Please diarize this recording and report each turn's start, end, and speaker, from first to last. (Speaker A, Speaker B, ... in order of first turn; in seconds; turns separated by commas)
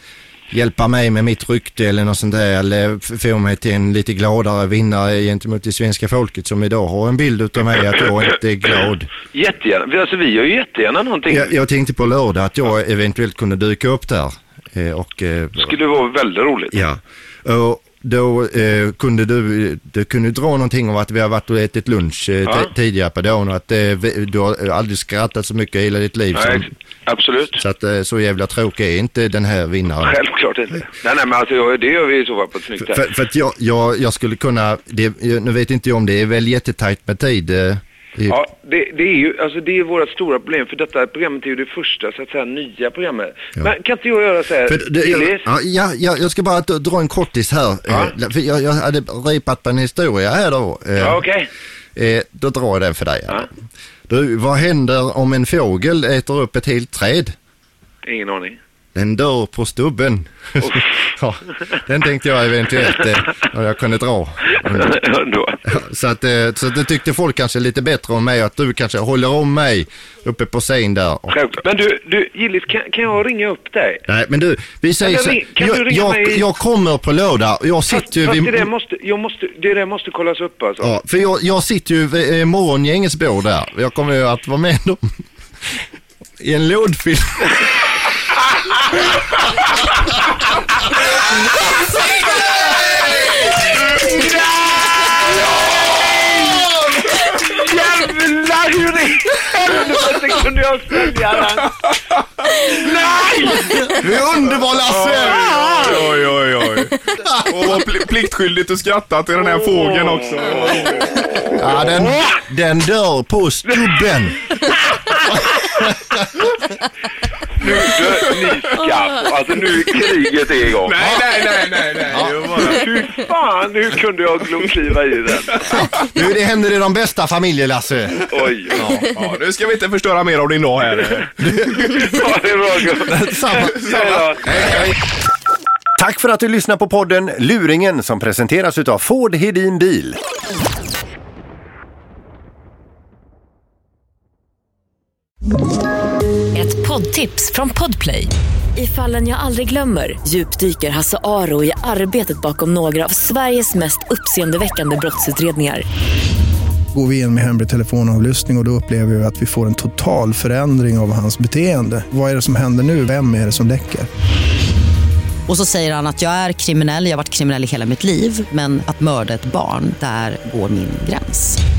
Speaker A: 0.5-9.1, Speaker B: 9.3-11.5, Speaker A: 11.3-15.8, Speaker B: 15.6-16.8, Speaker A: 16.7-26.7, Speaker B: 22.4-22.7, Speaker B: 26.3-27.6, Speaker A: 27.6-30.1, Speaker B: 30.0-33.0, Speaker A: 32.8-38.4, Speaker B: 38.3-45.4, Speaker A: 44.6-51.2, Speaker B: 47.9-48.1, Speaker B: 51.0-51.5, Speaker A: 51.9-53.5, Speaker A: 54.1-57.3, Speaker B: 58.0-58.6, Speaker A: 58.9-65.0, Speaker B: 64.6-65.6, Speaker A: 65.6-71.4, Speaker B: 71.3-74.0, Speaker A: 74.0-78.7, Speaker B: 75.0-76.4, Speaker B: 77.9-80.9, Speaker A: 80.8-85.0, Speaker A: 86.4-87.6, Speaker B: 96.0-96.4, Speaker B: 97.4-101.7, Speaker B: 102.6-103.7, Speaker A: 103.7-105.9, Speaker C: 104.9-111.0, Speaker A: 111.6-114.4, Speaker B: 117.6-121.0, Speaker C: 120.8-122.8, Speaker A: 122.1-122.4, Speaker B: 122.7-125.7, Speaker A: 125.7-129.0, Speaker B: 128.3-128.8, Speaker C: 128.8-131.4, Speaker A: 131.4-132.1, Speaker B: 131.9-134.7, Speaker A: 133.1-133.7, Speaker C: 133.6-134.9, Speaker D: 136.0-140.2, Speaker E: 146.5-155.8, Speaker F: 156.9-164.1, Speaker G: 165.5-171.6